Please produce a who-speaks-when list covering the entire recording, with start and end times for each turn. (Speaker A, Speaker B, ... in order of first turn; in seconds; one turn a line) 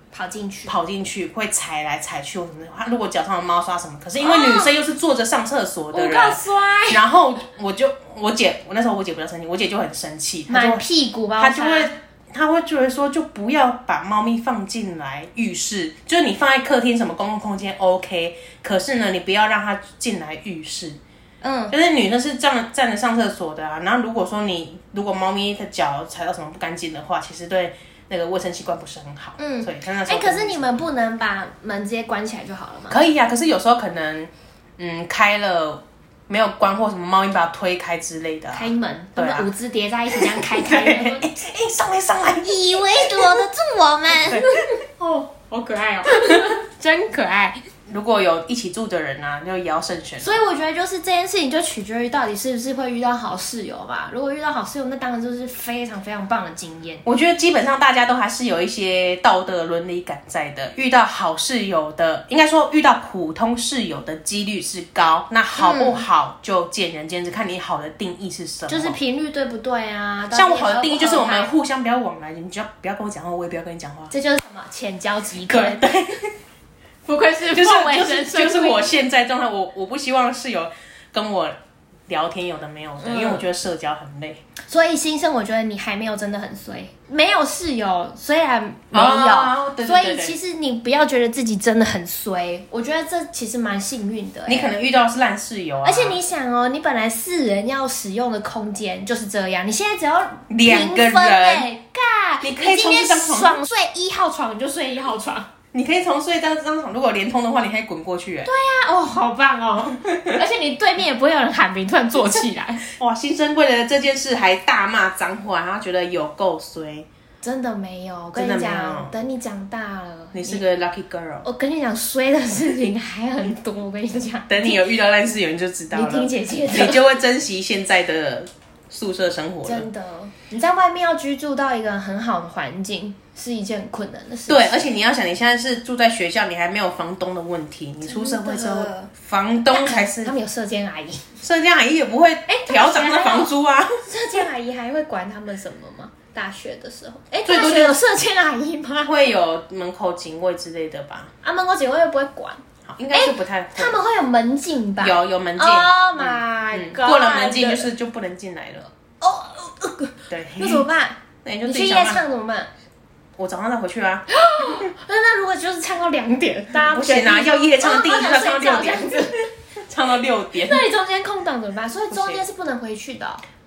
Speaker A: 0.1-0.7
Speaker B: 0.7-10.8
Speaker A: 4.2-4.7
Speaker A: 5.9-7.0
Speaker A: 10.5-11.9
Speaker B: 11.4-21.0
Speaker A: 21.4-21.7
Speaker B: 21.7-30.8
Speaker A: 29.4-33.0
Speaker B: 32.9-39.5
Speaker A: 38.5-41.3
Speaker B: 40.2-43.3
Speaker A: 42.4-47.6
Speaker B: 44.1-44.6
Speaker B: 47.9-50.4
Speaker A: 50.2-57.0
Speaker B: 57.0-69.0
Speaker A: 65.5-66.0
Speaker A: 68.7-71.5
Speaker B: 70.3-74.1
Speaker A: 74.1-75.8
Speaker B: 75.5-76.3
Speaker A: 77.0-79.0
Speaker B: 77.5-81.6
Speaker B: 82.1-84.4
Speaker A: 83.0-83.4
Speaker A: 84.7-94.7
Speaker B: 88.9-90.3
Speaker B: 94.5-96.2
Speaker A: 95.8-105.5
Speaker B: 100.5-101.7
Speaker B: 102.4-103.6
Speaker B: 105.7-108.5
Speaker A: 108.5-112.8
Speaker B: 110.0-110.4
Speaker B: 113.0-117.1
Speaker A: 117.4-120.6
Speaker B: 118.3-119.1
Speaker B: 120.3-121.5
Speaker A: 121.4-124.8
Speaker B: 124.5-129.9
Speaker A: 125.9-127.1
Speaker A: 129.6-134.8
Speaker B: 134.5-140.3
Speaker A: 138.0-139.1
Speaker A: 139.7-141.2
Speaker B: 141.4-144.1
Speaker A: 142.5-143.5
Speaker A: 144.1-149.1
Speaker B: 147.4-148.0
Speaker B: 149.0-151.3
Speaker A: 151.4-157.9
Speaker B: 152.8-154.0
Speaker B: 155.0-158.9
Speaker A: 159.2-162.7
Speaker B: 160.3-160.8
Speaker B: 161.4-162.2
Speaker B: 163.4-164.8
Speaker A: 164.3-169.5
Speaker B: 166.7-170.8
Speaker A: 170.5-173.4
Speaker B: 172.1-172.4